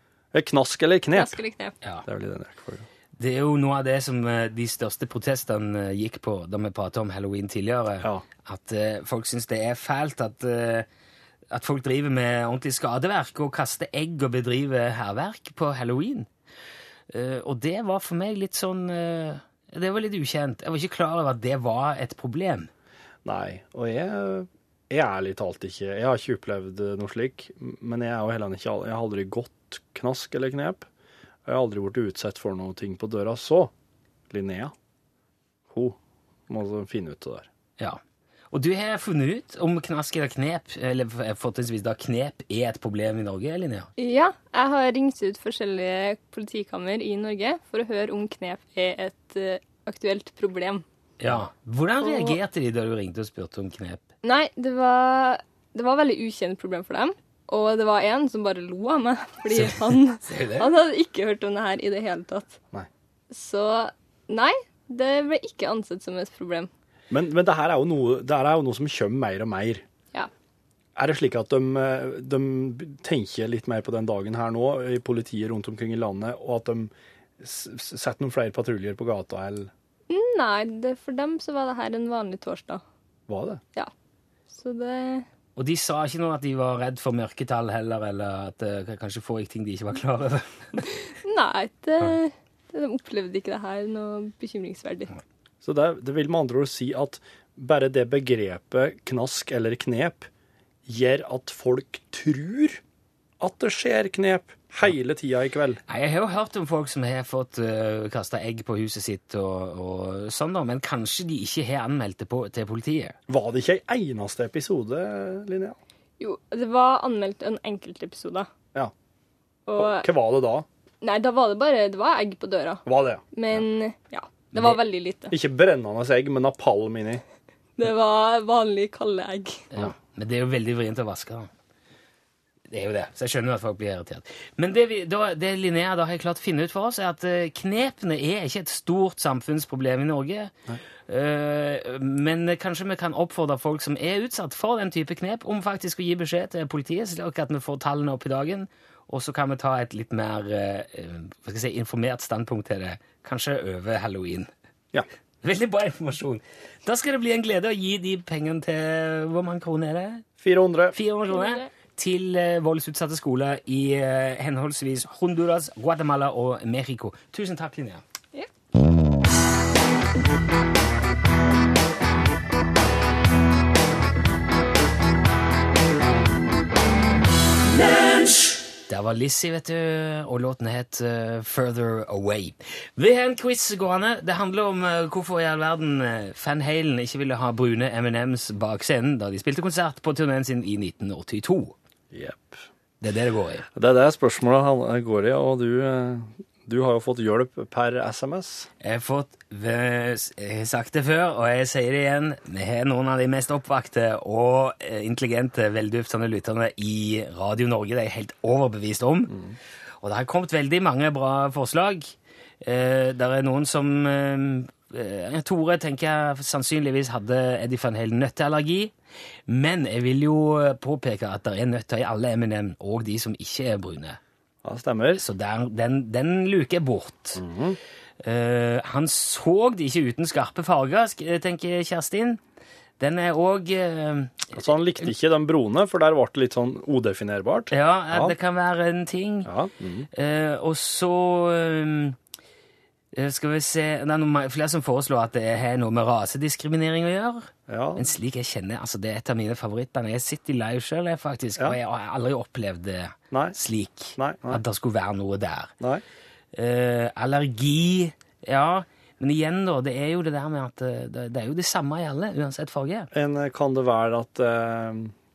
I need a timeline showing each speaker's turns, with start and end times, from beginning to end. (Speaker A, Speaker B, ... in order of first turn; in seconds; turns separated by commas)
Speaker A: 0.3-1.4, Speaker B: 1.1-1.8, Speaker A: 2.0-2.9, Speaker C: 3.2-10.9, Speaker C: 11.5-16.3, Speaker C: 17.1-22.7, Speaker A: 23.2-30.9, Speaker A: 31.4-33.7, Speaker A: 34.3-34.7, Speaker A: 35.7-36.0, Speaker A: 36.5-37.5, Speaker C: 37.8-43.9, Speaker B: 44.0-50.8, Speaker C: 51.2-54.0, Speaker B: 52.0-52.4, Speaker B: 54.2-62.6, Speaker C: 59.5-60.7, Speaker B: 63.3-66.7, Speaker A: 67.1-69.8, Speaker A: 71.0-79.7, Speaker B: 80.1-82.8, Speaker A: 83.3-83.6, Speaker B: 84.5-85.2, Speaker C: 85.5-90.8, Speaker B: 91.2-95.2, Speaker A: 95.6-100.3, Speaker A: 100.9-102.8, Speaker A: 103.4-105.8, Speaker C: 105.9-113.2, Speaker A: 113.3-115.8, Speaker B: 116.2-118.5, Speaker B: 119.7-120.1, Speaker A: 119.8-120.7, Speaker B: 121.0-125.3, Speaker A: 122.9-123.2, Speaker A: 125.3-127.2, Speaker B: 127.8-129.6, Speaker C: 129.7-131.5, Speaker C: 132.7-140.5, Speaker C: 141.1-154.5, Speaker C: 155.4-160.2, Speaker A: 160.4-161.0, Speaker C: 160.9-168.0, Speaker B: 161.3-161.7, Speaker C: 178.9-191.7, Speaker A: 192.1-192.6, Speaker C: 193.0-193.7, Speaker A: 193.8-198.7, Speaker C: 198.8-209.4, Speaker C: 210.0-218.9, Speaker C: 219.5-224.2, Speaker A: 224.6-225.2, Speaker C: 225.2-227.4, Speaker A: 227.4-227.8, Speaker C: 228.2-232.4, Speaker C: 233.0-234.5, Speaker A: 234.5-238.4, Speaker C: 237.7-239.5, Speaker A: 239.4-240.1, Speaker C: 240.1-242.2, Speaker C: 243.1-255.7, Speaker A: 247.7-248.1, Speaker A: 253.3-253.6, Speaker A: 254.2-254.6, Speaker C: 256.5-263.1, Speaker A: 263.1-265.1